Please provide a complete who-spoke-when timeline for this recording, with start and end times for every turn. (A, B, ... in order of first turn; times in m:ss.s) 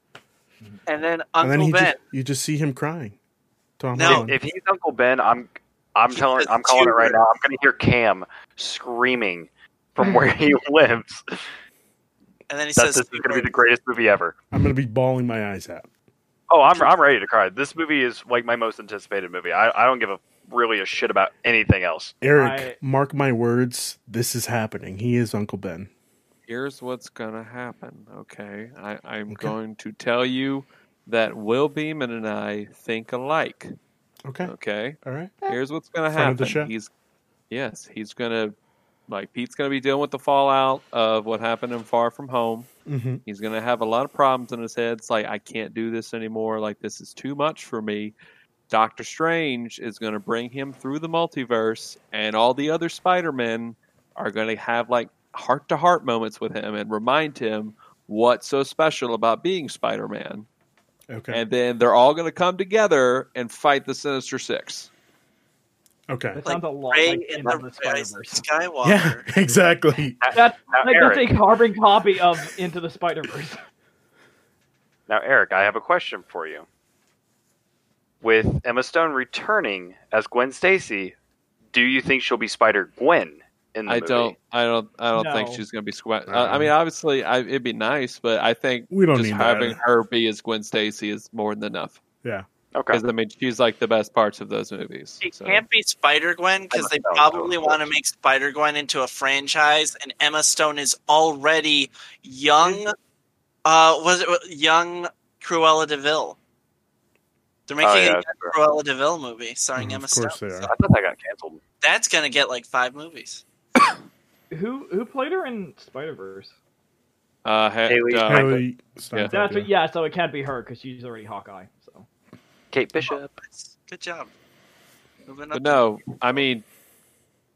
0:00.9-0:02.0 A
0:01.4-0:03.2 B
0:03.8-0:04.4 B
0:04.0-0:04.3 A
0:04.0-0:11.4 C
0:06.1-0:07.2 A
0:12.5-0:13.5 A
0:12.8-0:14.4 C
0:14.5-0:15.9 B
0:16.5-0:22.1 C
0:22.2-0:25.9 B
0:22.4-0:22.8 D
0:26.5-0:33.7 E
0:29.3-0:29.6 B
0:34.3-0:35.4 B
0:34.4-0:36.9 E
0:36.1-0:36.7 B
0:37.5-0:38.5 E
0:39.1-0:42.7 E
0:42.9-0:43.2 B
0:43.3-0:48.1 E
0:48.7-1:00.5 E
1:01.1-1:01.4 B
1:01.3-1:04.9 E
1:06.1-1:06.4 B
1:06.4-1:08.4 D
1:06.4-1:09.2 A
1:08.8-1:10.2 B
1:10.2-1:11.4 C
1:10.3-1:13.6 D
1:15.1-1:16.7 C
1:18.2-1:21.1 C
1:21.7-1:24.4 C
1:23.9-1:32.0 E
1:25.1-1:25.6 D
1:26.3-1:26.7 B
1:28.9-1:29.8 B
1:32.7-1:33.0 C
1:32.9-1:35.6 E
1:35.2-1:43.0 A
1:36.7-1:37.9 C
1:43.6-1:46.4 A
1:47.7-1:50.7 A
1:47.8-1:48.5 C
1:49.8-1:50.7 B
1:50.6-1:51.6 C
1:51.8-1:53.4 A
1:54.5-1:56.5 D
1:57.4-1:58.6 E
1:57.9-1:58.6 C
1:58.3-1:59.7 B
1:59.3-2:02.1 D
2:02.7-2:03.3 C
2:03.0-2:04.3 A
2:05.3-2:06.1 A
2:05.5-2:06.6 E